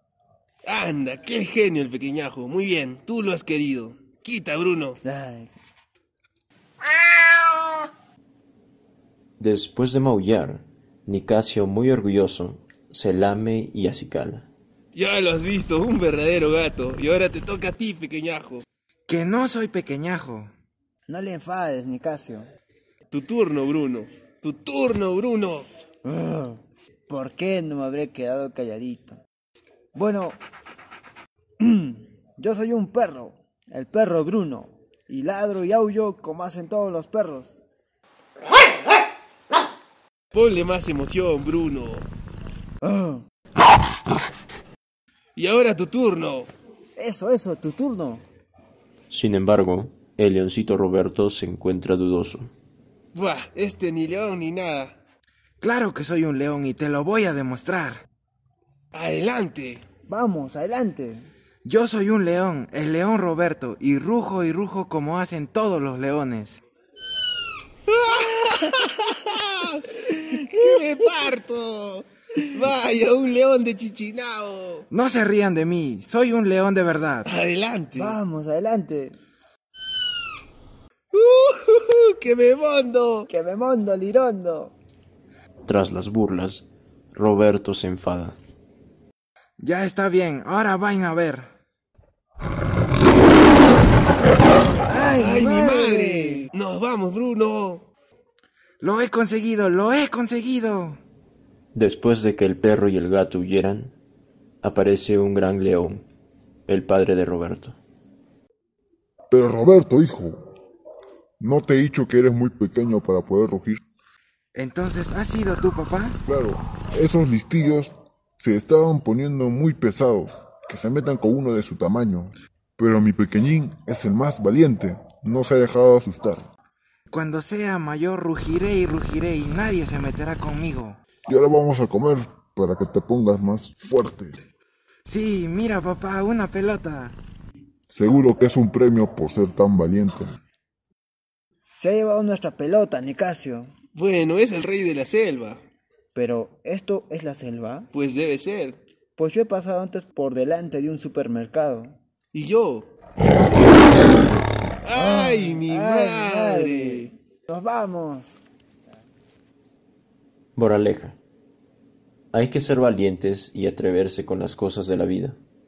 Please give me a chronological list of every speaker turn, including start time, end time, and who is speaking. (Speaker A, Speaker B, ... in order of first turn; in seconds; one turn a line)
Speaker A: 0.7-5.0
Speaker B: 5.0-5.5
Speaker C: 9.4-14.5
Speaker A: 14.9-18.6
Speaker D: 19.1-20.5
Speaker B: 21.1-22.5
Speaker A: 23.1-25.7
Speaker B: 26.1-29.2
Speaker B: 29.9-30.4
Speaker B: 31.6-37.6
Speaker A: 40.3-42.1
Speaker B: 42.8-43.2
Speaker A: 45.4-46.5
Speaker B: 47.0-48.2
Speaker C: 49.1-52.5
Speaker A: 53.1-55.0
Speaker D: 55.6-58.0
Speaker A: 58.9-59.8
Speaker B: 60.1-61.3
Speaker D: 61.6-66.6
Speaker A: 67.9-74.9
Speaker D: 74.9-77.3
Speaker A: 77.2-78.2
Speaker B: 78.0-79.2
Speaker A: 81.1-83.3
Speaker B: 83.3-84.7
Speaker C: 85.7-88.4
Speaker D: 89.6-91.5
Speaker B: 94.8-96.5
Speaker A: 95.2-97.9
Speaker D: 98.8-101.0
Speaker C: 101.7-104.0
Speaker C: 104.6-106.0
Speaker C: 106.7-107.8
Speaker E: 109.3-110.5
Speaker E: 111.4-113.8
Speaker D: 114.5-116.2
Speaker E: 116.3-126.5
Speaker D: 127.1-131.0
Speaker E: 131.3-134.4
Speaker D: 135.1-137.2
Speaker E: 137.9-140.4
Speaker B: 141.8-143.7
Speaker A: 143.9-145.6
Speaker B: 146.1-147.9
Speaker A: 147.9-148.8
Speaker B: 149.2-151.9
Speaker A: 152.3-152.9
Speaker A: 154.8-157.1
Speaker B: 154.9-158.4
Speaker C: 160.6-161.2
Speaker C: 162.3-165.4